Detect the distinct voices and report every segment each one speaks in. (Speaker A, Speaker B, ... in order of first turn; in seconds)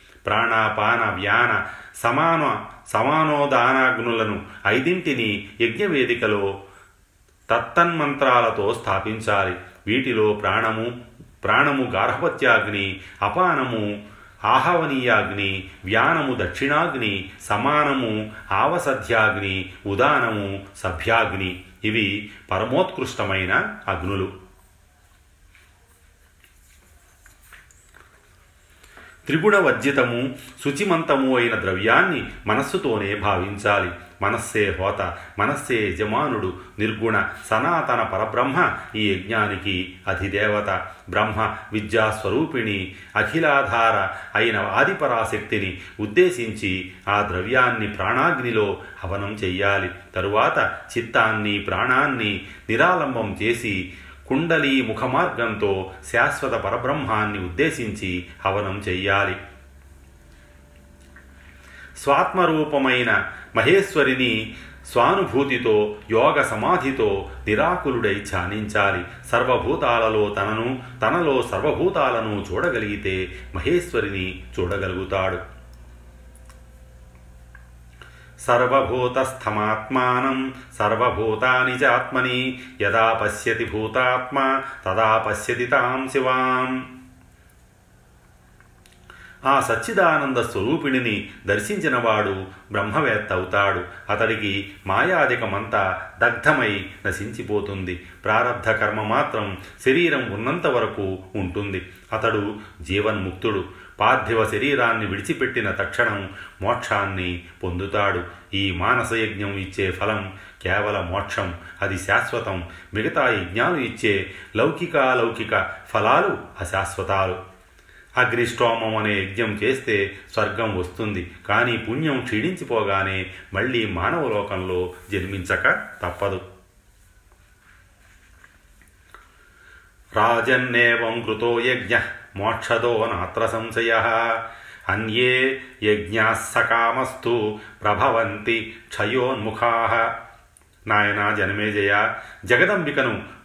Speaker A: 0.3-6.5, 7.5-10.9, 11.4-13.9, 14.5-24.3, 29.3-59.4, 62.0-64.4, 64.9-75.4, 78.5-86.9, 89.5-117.4, 118.2-126.4, 130.2-140.1, 140.9-143.2